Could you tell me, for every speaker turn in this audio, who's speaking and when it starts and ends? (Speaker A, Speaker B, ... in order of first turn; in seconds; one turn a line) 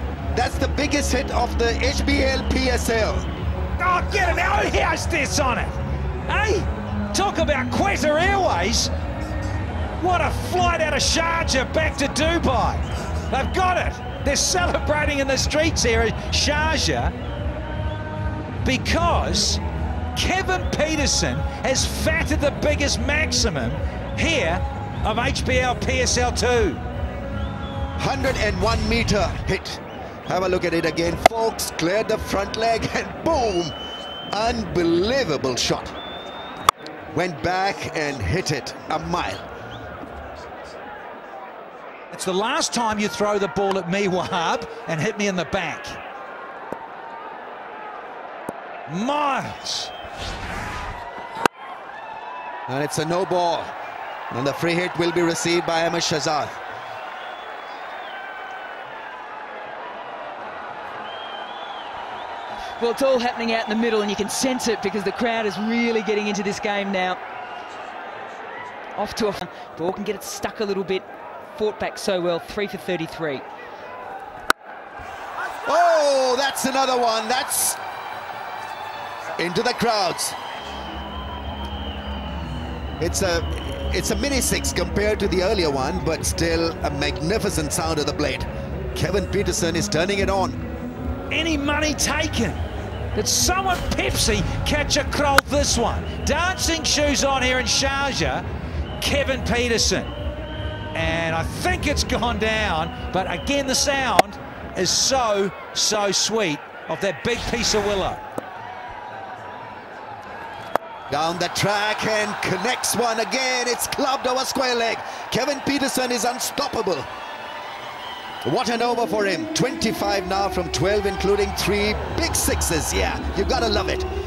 Speaker A: 0.3-3.3
Speaker B: 3.8-5.8
Speaker B: 6.3-8.9
Speaker B: 10.0-17.1
Speaker B: 18.6-19.6
Speaker B: 20.1-26.8
Speaker A: 28.0-33.7
Speaker A: 34.3-35.9
Speaker A: 37.1-39.4
Speaker B: 42.1-46.0
Speaker B: 48.9-49.9
Speaker A: 52.7-53.7
Speaker A: 54.3-56.6
Speaker C: 62.8-67.2
Speaker C: 69.0-73.5
Speaker A: 75.6-77.8
Speaker A: 79.3-80.4
Speaker A: 83.0-90.6
Speaker B: 91.3-92.6
Speaker B: 93.1-98.4
Speaker B: 99.0-100.1
Speaker B: 100.9-108.2
Speaker A: 111.1-117.1
Speaker A: 118.4-124.1